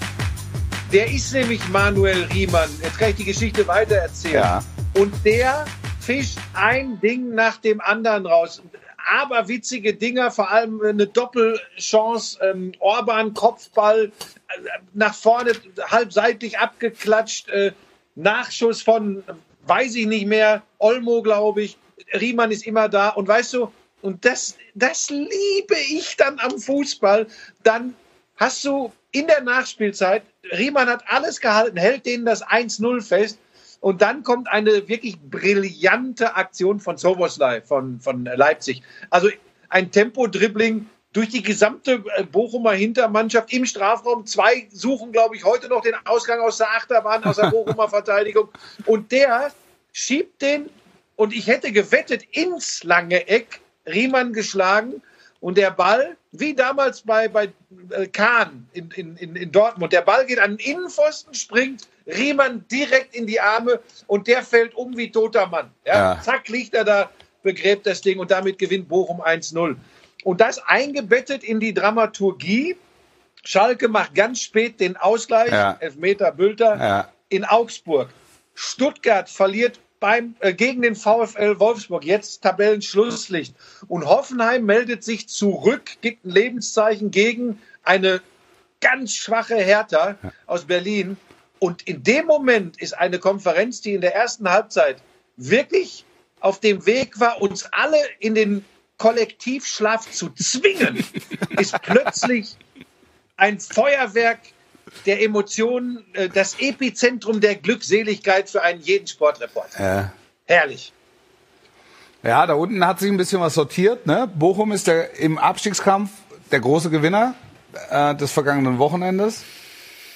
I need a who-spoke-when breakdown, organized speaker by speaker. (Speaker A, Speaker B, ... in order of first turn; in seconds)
Speaker A: 0.9-72.8, 73.5-88.2, 88.8-102.6, 103.4-104.5, 105.0-109.8, 110.5-110.9
Speaker B: 4.3-4.7, 65.9-66.2, 75.5-75.8, 76.8-77.1, 109.8-110.1, 112.2-119.5